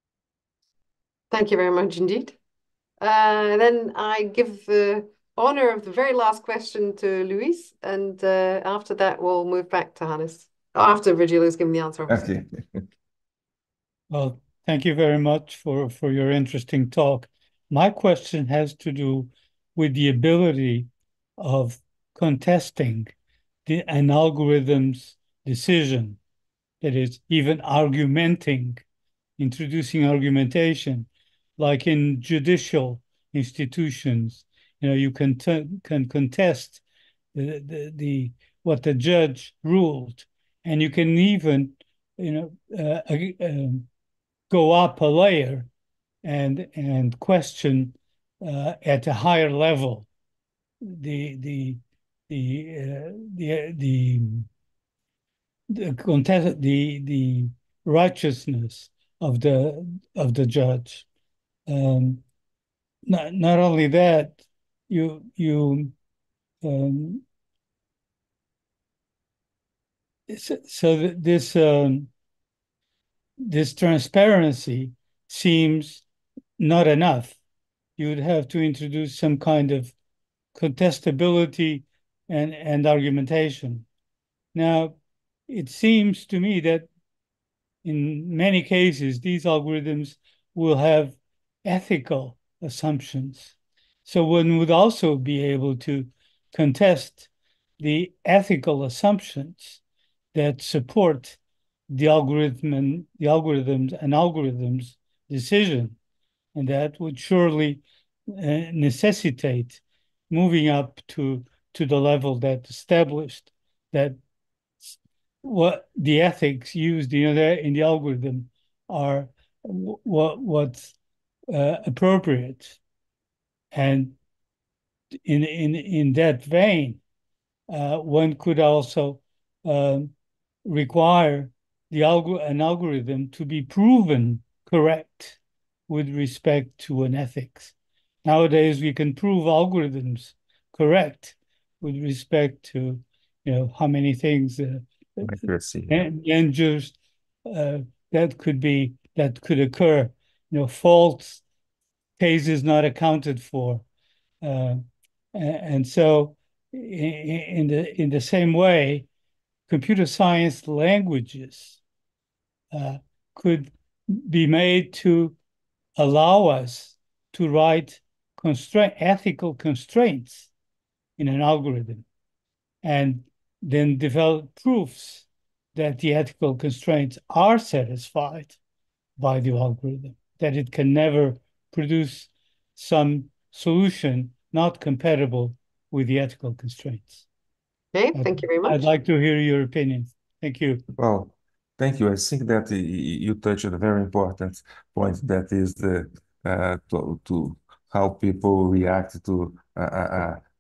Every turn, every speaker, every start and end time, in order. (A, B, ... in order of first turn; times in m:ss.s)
0:01.3-0:02.4 A
0:03.0-0:12.3 A
0:12.1-0:12.5 B
0:14.1-0:23.1 C
0:23.7-0:26.2 C
0:26.8-0:28.8 C
0:29.4-0:36.8 C
0:37.3-0:43.9 C
0:44.5-0:45.7 C
0:46.2-0:50.1 C
0:50.8-0:54.5 C
0:55.7-1:01.1 C
1:01.7-1:02.2 C
1:03.1-1:06.0 C
1:06.6-1:07.2 C
1:10.3-1:12.1 C
1:13.4-1:16.0 C
1:16.6-1:17.4 C
1:18.0-1:19.9 C
1:20.6-1:23.9 C
1:24.5-1:26.9 C
1:27.8-1:33.6 C
1:34.1-1:37.3 C
1:37.8-1:39.8 C
1:40.3-1:46.0 C
1:46.6-1:54.2 C
1:54.8-2:00.9 C
2:01.5-2:02.8 C
2:03.7-2:04.2 C
2:05.2-2:07.0 C
2:07.7-2:10.1 C
2:10.6-2:15.4 C
2:15.9-2:17.7 C
2:18.2-2:31.4 C
2:25.2-2:26.0 B
2:32.2-2:33.8 C
2:34.4-2:39.1 C
2:39.7-2:41.8 C
2:42.7-2:45.4 C
2:46.0-2:50.5 C
2:51.2-2:52.1 C
2:52.8-2:58.6 C
2:59.2-3:07.2 C
3:07.9-3:08.8 A
3:08.2-3:10.8 C
3:11.0-3:20.4 B